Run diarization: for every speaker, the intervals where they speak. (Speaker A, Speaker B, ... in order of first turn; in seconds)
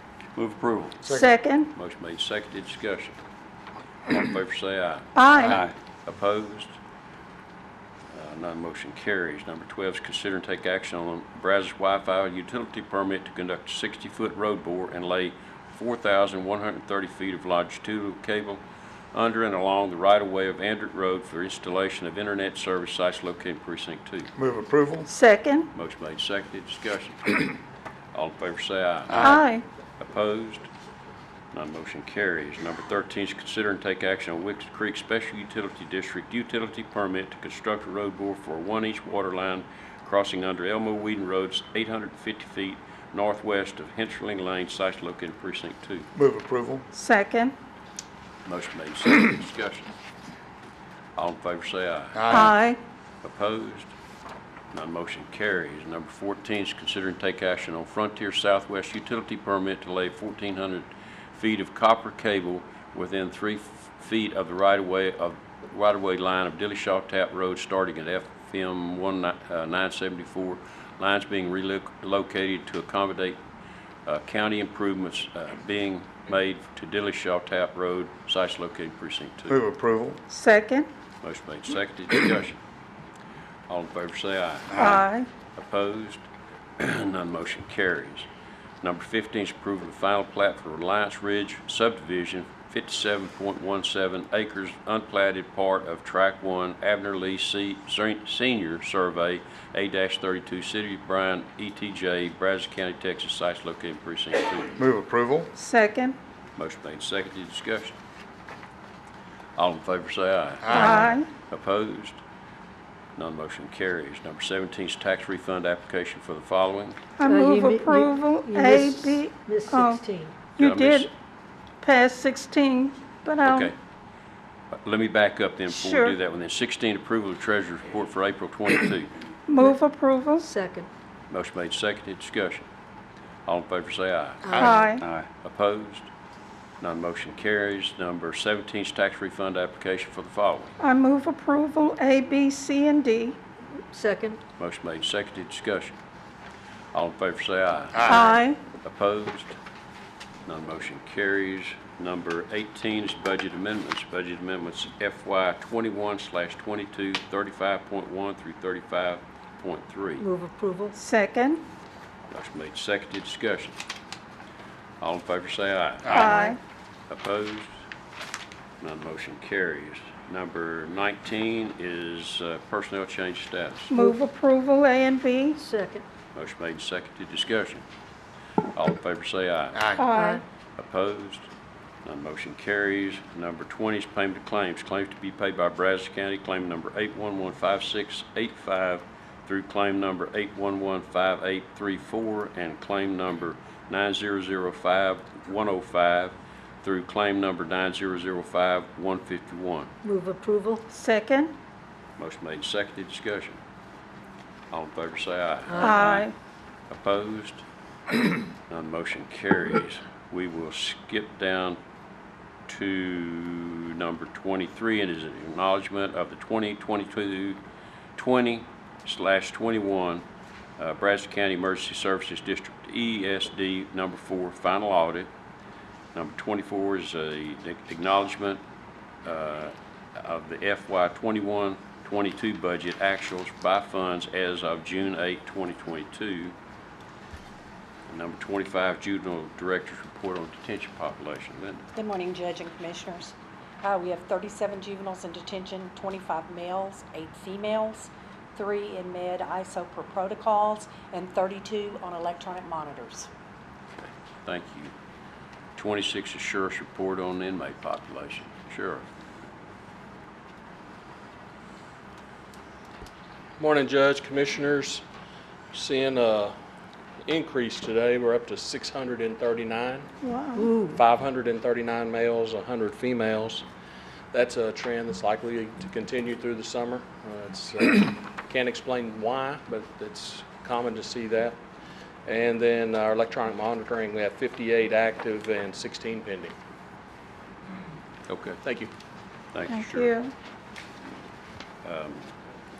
Speaker A: 0.4-1.1, 1.7-3.2, 4.1-6.8, 8.1-18.6, 19.1-24.3, 25.7-27.5, 28.1-29.4, 30.0-30.7, 31.5-46.1, 48.5-49.9, 51.2-52.4, 53.2-53.9, 54.7-73.4, 74.1-79.6, 81.2-82.6, 83.7-85.0, 85.5-88.3, 88.8-104.8, 106.6-108.0, 109.6-112.2, 113.2-117.0, 120.6-121.1, 123.4-123.8, 124.7-129.1, 131.3-132.7, 133.5-134.7, 135.2-136.1, 136.8-140.7, 144.6-145.9, 146.9-149.6, 150.5-160.3, 162.3-163.8, 165.0-166.5, 167.1-167.7, 168.8-173.9, 176.3-177.8, 178.8-180.0, 180.8-181.5, 182.1-199.9, 202.2-203.6, 204.7-206.3, 206.9-207.6, 208.7-211.8, 212.7-217.6, 218.2-220.2, 220.8-225.3, 226.1-228.6, 229.2-236.6, 238.1-241.8, 254.0-254.9, 255.8-259.0, 288.3-288.6, 289.5-290.1, 291.8-292.3
Speaker B: 1.1-1.7, 5.2-5.6, 25.1-25.7, 29.2-29.6, 46.9-47.5, 52.3-52.8, 80.3-80.9, 84.8-85.3, 105.6-106.2, 110.7-111.3, 117.2-121.1, 121.8-123.7, 125.7-126.2, 129.5-130.5, 134.6-135.1, 140.8-143.4, 148.1-148.6, 160.9-161.6, 166.1-166.6, 173.9-175.6, 180.0-180.4, 200.9-201.5, 205.8-206.3, 270.2-270.7, 289.7-290.3
Speaker C: 24.4-25.1, 46.2-46.9, 52.1-52.5, 79.5-80.2, 104.8-105.5, 110.6-111.1
Speaker D: 117.3-120.4, 130.5-130.9, 134.5-134.8, 143.9-144.4, 160.2-160.9, 175.6-176.0, 200.0-200.8, 270.6-271.0
Speaker E: 241.9-253.3
Speaker F: 263.6-265.0, 265.7-266.5, 267.3-270.1, 270.9-273.6, 274.3-281.6, 282.3-286.5, 288.6-288.9